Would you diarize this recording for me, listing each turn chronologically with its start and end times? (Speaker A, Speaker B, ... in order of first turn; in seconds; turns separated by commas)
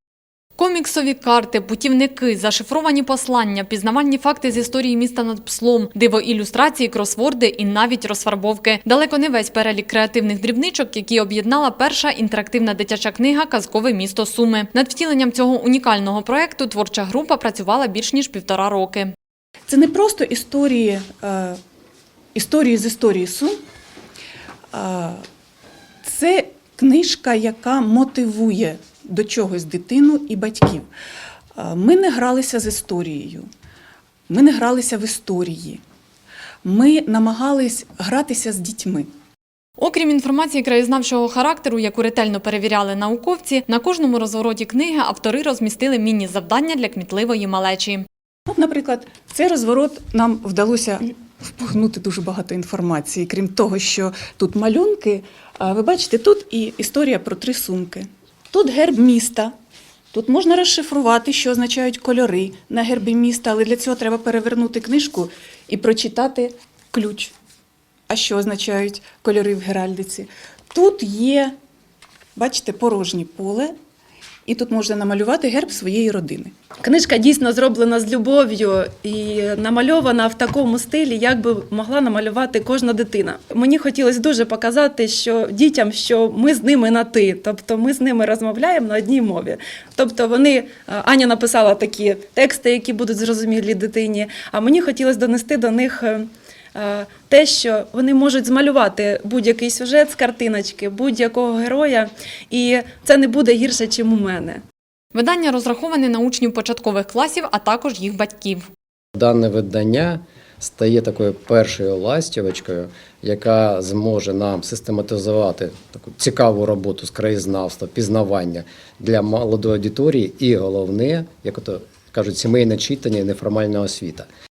Speaker A: 0.6-19.1, Speaker B: 19.7-21.6, Speaker B: 22.4-23.6, Speaker B: 24.7-25.2, Speaker B: 26.0-30.9, Speaker B: 31.6-33.5, Speaker B: 34.3-35.8, Speaker B: 36.6-39.1, Speaker A: 39.8-48.0, Speaker B: 48.5-59.5, Speaker B: 60.1-67.3, Speaker B: 68.1-71.5, Speaker B: 72.4-73.7, Speaker B: 74.5-76.5, Speaker C: 76.8-104.6, Speaker A: 105.1-108.7, Speaker D: 109.2-124.3